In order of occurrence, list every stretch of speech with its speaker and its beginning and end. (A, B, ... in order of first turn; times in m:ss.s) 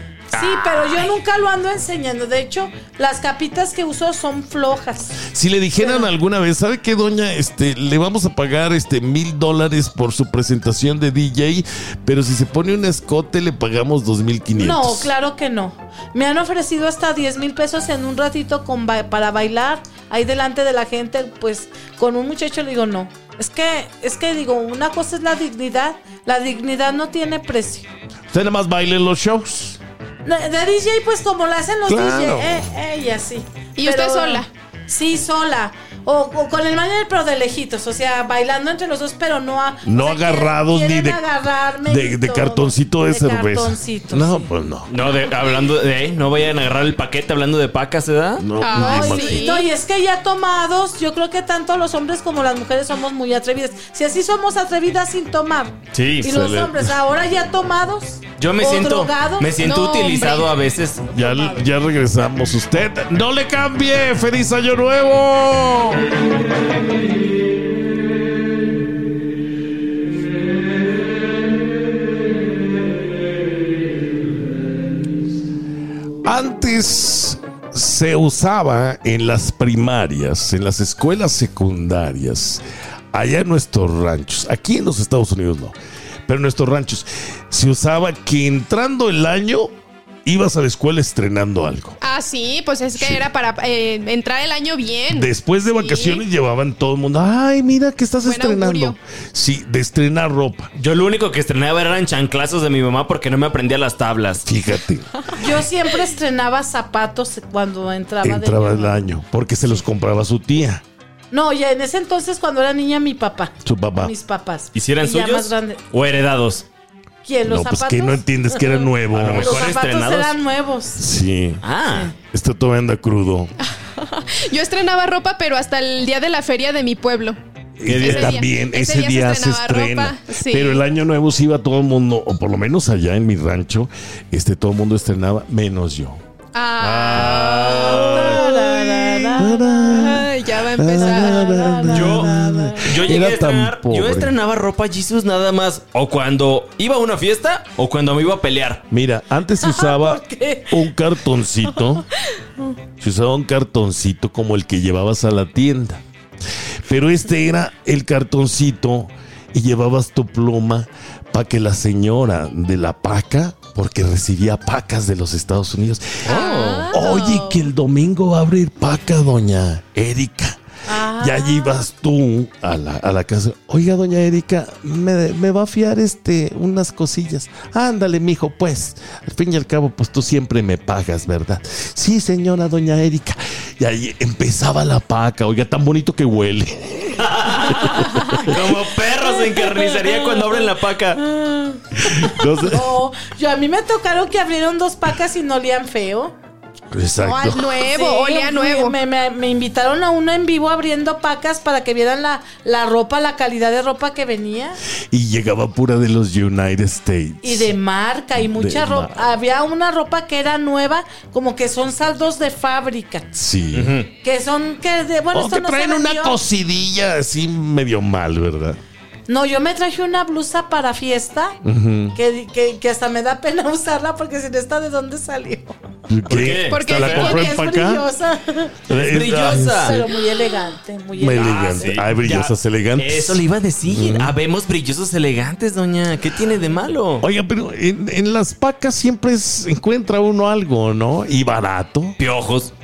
0:00.3-0:01.1 A
0:00.3-0:05.2 B
0:05.3-0:15.1 C
0:05.8-0:06.1 B
0:14.6-0:27.9 B
0:28.3-0:29.8 C
0:30.2-0:44.5 B
0:31.9-0:32.7 C
0:33.8-0:34.5 D
0:39.8-0:41.2 C
0:41.8-0:44.9 C
0:44.9-0:48.4 A
0:48.4-0:49.5 C
0:48.6-0:49.7 D
0:48.7-0:59.7 B
0:55.9-0:56.4 A
0:56.2-0:56.9 C
0:58.4-1:01.0 A
0:59.6-1:00.5 D
1:01.1-1:06.0 C
1:01.1-1:01.6 B
1:16.2-1:25.7 C
1:26.3-1:29.7 C
1:30.2-1:32.0 C
1:32.0-1:36.2 D
1:32.9-1:33.3 C
1:35.1-1:40.7 C
1:38.2-1:39.0 D
1:40.8-1:44.4 A
1:44.4-1:45.1 C
1:45.3-1:49.1 B
1:48.2-1:50.8 C
1:51.3-1:55.8 B
1:53.6-1:54.1 C
1:54.7-1:56.6 A
1:57.2-2:01.0 B
1:57.4-1:59.7 C
1:59.1-2:00.4 A
2:01.0-2:01.6 C
2:01.6-2:02.1 A
2:02.2-2:03.5 C
2:03.6-2:10.8 D
2:07.8-2:16.2 C
2:07.8-2:08.4 A
2:16.5-2:21.5 D
2:16.8-2:18.5 C
2:17.0-2:18.4 A
2:17.8-2:20.2 B
2:19.3-2:24.4 C
2:21.0-2:23.1 B
2:21.9-2:28.8 A
2:28.9-2:32.0 C
2:29.6-2:30.9 B
2:33.0-2:36.0 C
2:36.8-2:46.4 C
2:46.2-2:46.9 A
2:46.3-2:47.6 D
2:46.4-2:46.9 B
2:46.9-3:08.5 C
2:50.8-2:51.9 B
3:07.2-3:11.2 A
3:09.2-3:16.3 B
3:12.0-3:12.9 C
3:16.9-3:17.7 C
3:17.2-3:19.0 D
3:17.7-3:24.8 B
3:25.1-3:27.7 C
3:27.4-3:33.2 B
3:28.3-3:29.2 C
3:33.3-3:34.0 C
3:33.7-3:34.1 A
3:34.2-3:36.4 B
3:35.3-3:38.8 C
3:39.3-3:41.6 B
3:41.6-3:42.2 C
3:42.1-3:45.8 B
3:46.1-3:48.1 C
3:46.3-3:47.6 A
3:46.6-3:47.6 D
3:47.1-3:52.0 B
3:48.9-3:50.1 C
3:48.9-3:50.0 A
3:51.2-3:54.3 C
3:51.4-3:57.3 A
3:57.2-4:02.2 C
4:02.2-4:02.7 A